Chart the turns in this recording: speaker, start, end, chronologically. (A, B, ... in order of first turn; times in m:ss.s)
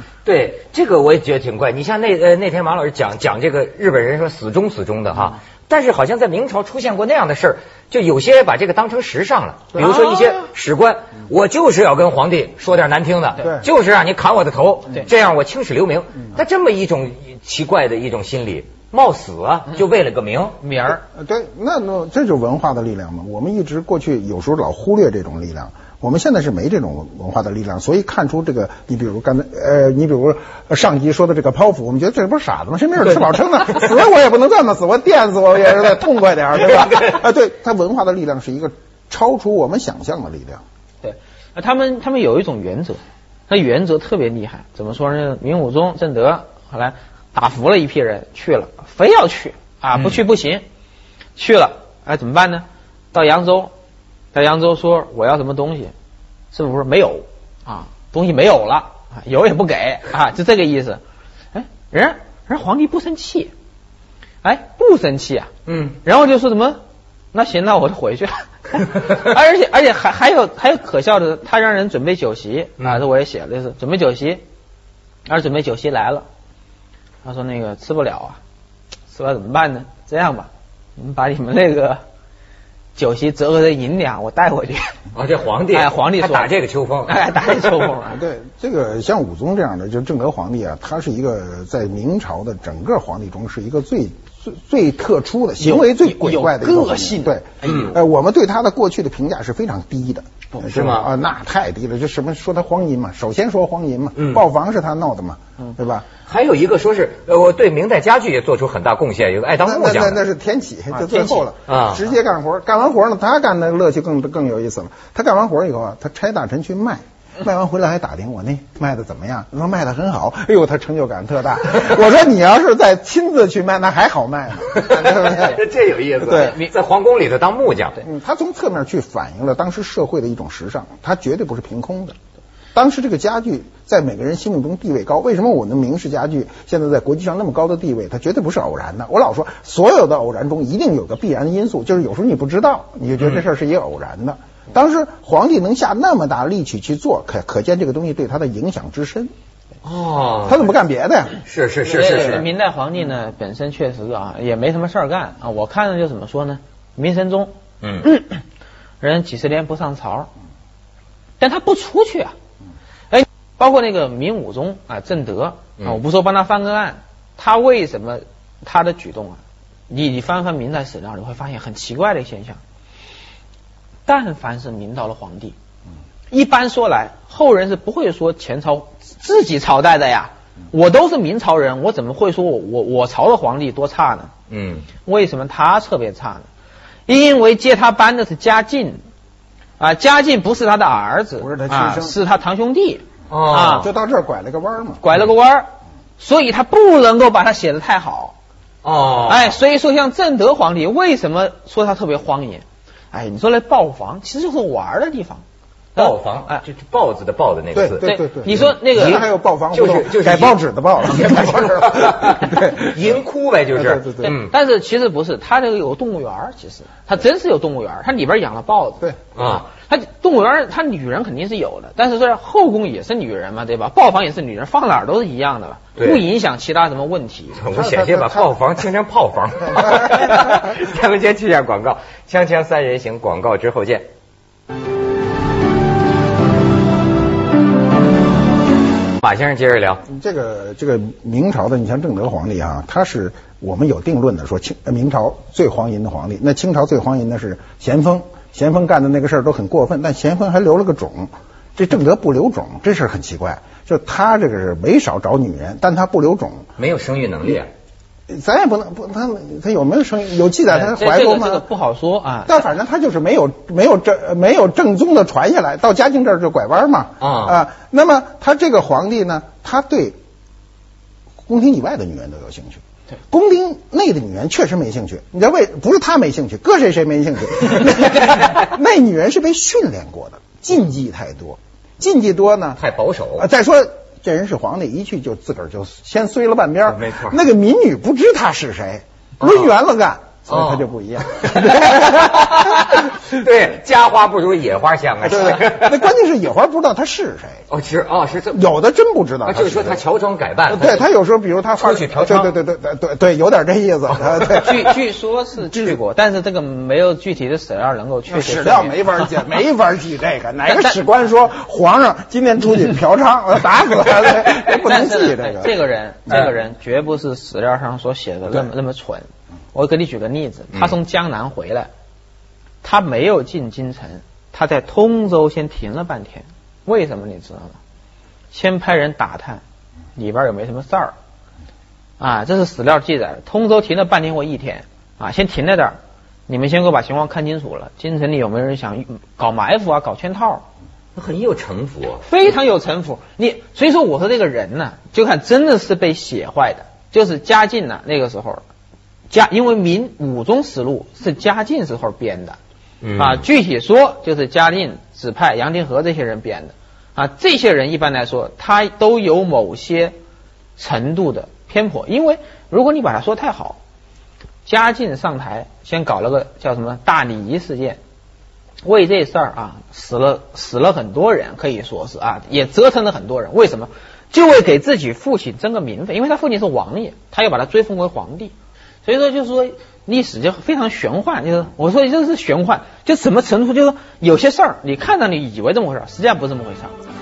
0:00.2-0:20.6 A
0:09.8-0:10.4 B
0:13.4-0:13.7 C
0:20.6-0:21.0 B
0:21.0-0:40.6 C
0:41.0-0:50.6 B
0:51.4-0:53.7 B
0:54.3-0:55.9 B
0:56.5-1:01.0 B
1:01.5-1:03.5 B
1:04.4-1:05.5 B
1:05.6-1:06.0 A
1:06.0-1:06.8 B
1:07.3-1:14.4 B
1:15.2-1:16.2 B
1:17.2-1:18.4 B
1:19.1-1:22.0 B
1:23.0-1:25.0 B
1:25.1-1:27.2 A
1:25.7-1:26.5 B
1:27.0-1:28.2 B
1:28.1-1:46.0 C
1:35.6-1:37.9 B
1:37.6-1:37.9 A
1:40.6-1:41.1 A
1:44.2-1:44.4 A
1:46.2-1:50.2 A
1:49.6-2:05.6 C
1:51.0-1:51.4 B
1:51.7-1:52.0 A
2:04.7-2:08.0 A
2:06.2-2:06.5 C
2:06.2-2:06.7 B
2:08.0-2:12.1 C
2:12.7-2:29.3 C
2:23.2-2:23.4 A
2:29.8-2:30.7 A
2:30.4-2:31.4 C
2:31.4-2:32.4 A
2:31.8-2:38.4 B
2:37.8-2:38.1 A
2:39.0-2:40.3 B
2:41.4-2:42.3 B
2:43.1-2:52.6 B
2:54.1-2:55.6 B
2:56.3-3:04.3 B
3:04.5-3:04.9 A
3:05.0-3:06.5 B
3:07.1-3:09.0 B
3:09.8-3:13.9 B
3:11.4-3:12.2 C
3:13.3-3:13.9 A
3:13.7-3:15.0 C
3:15.0-3:15.7 B
3:16.2-3:18.4 B
3:18.8-3:19.6 A
3:19.3-3:25.4 B
3:26.0-3:26.6 B
3:26.0-3:28.1 A
3:27.7-3:33.1 C
3:28.0-3:29.2 B
3:28.9-3:34.5 A
3:33.7-3:34.3 C
3:34.2-3:47.6 B
3:39.4-3:39.6 A
3:46.0-3:46.2 A
3:47.6-3:54.1 A
3:47.7-3:48.5 C
3:49.7-3:50.5 C
3:59.2-4:00.0 A
4:00.1-4:16.7 C
4:16.8-4:17.7 A
4:18.3-4:21.6 C
4:20.7-4:22.6 B
4:22.5-4:30.2 C
4:27.2-4:27.6 A
4:31.4-4:42.8 C
4:42.8-4:43.4 A
4:43.4-4:53.0 C
4:46.9-4:47.4 A
4:49.4-4:49.7 A
4:50.5-4:56.1 A
4:55.2-4:57.6 C
4:57.7-4:58.6 A
4:58.5-5:00.0 C
4:59.4-5:01.1 A
5:00.7-5:04.9 C
5:01.8-5:02.5 A
5:04.5-5:09.3 B
5:05.7-5:06.0 C
5:08.3-5:15.8 C
5:10.7-5:11.0 B
5:14.6-5:21.9 B
5:22.8-5:27.8 B
5:28.5-5:29.6 B
5:30.2-5:31.1 B
5:32.2-5:36.0 B
5:36.5-5:40.6 B
5:41.1-5:42.2 A
5:42.2-5:48.6 B
5:49.3-5:52.6 B
5:53.0-5:53.4 A
5:53.2-6:00.1 B
6:00.8-6:03.8 B
6:04.6-6:08.0 B
6:08.8-6:18.5 B
6:19.0-6:26.9 B